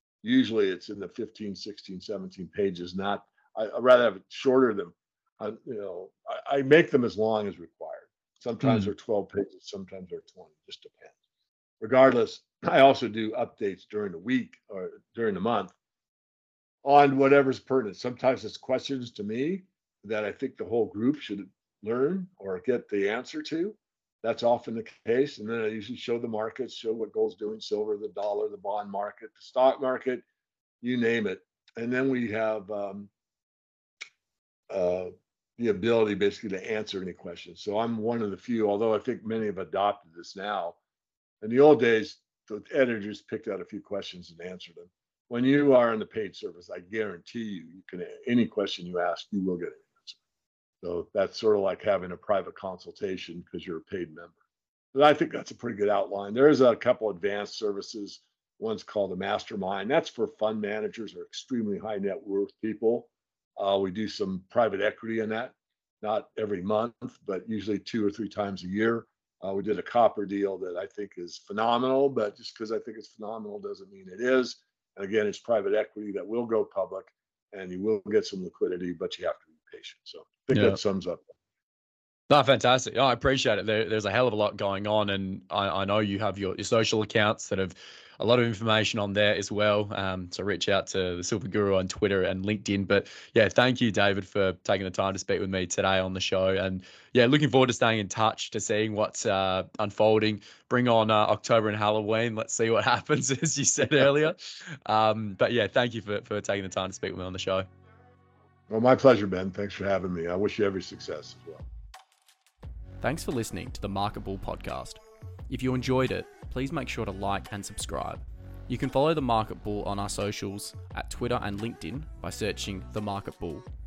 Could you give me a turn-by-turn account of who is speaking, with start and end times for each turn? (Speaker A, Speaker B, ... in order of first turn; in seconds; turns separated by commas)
Speaker A: 0.2-11.2, Speaker B: 8.6-8.9, Speaker A: 11.8-15.7, Speaker A: 16.8-30.2, Speaker A: 30.8-33.1, Speaker A: 34.7-40.8, Speaker A: 41.4-50.2, Speaker A: 50.8-54.4, Speaker A: 54.9-81.2, Speaker B: 80.5-80.8, Speaker B: 82.3-107.7, Speaker A: 108.7-111.7, Speaker B: 113.0-123.6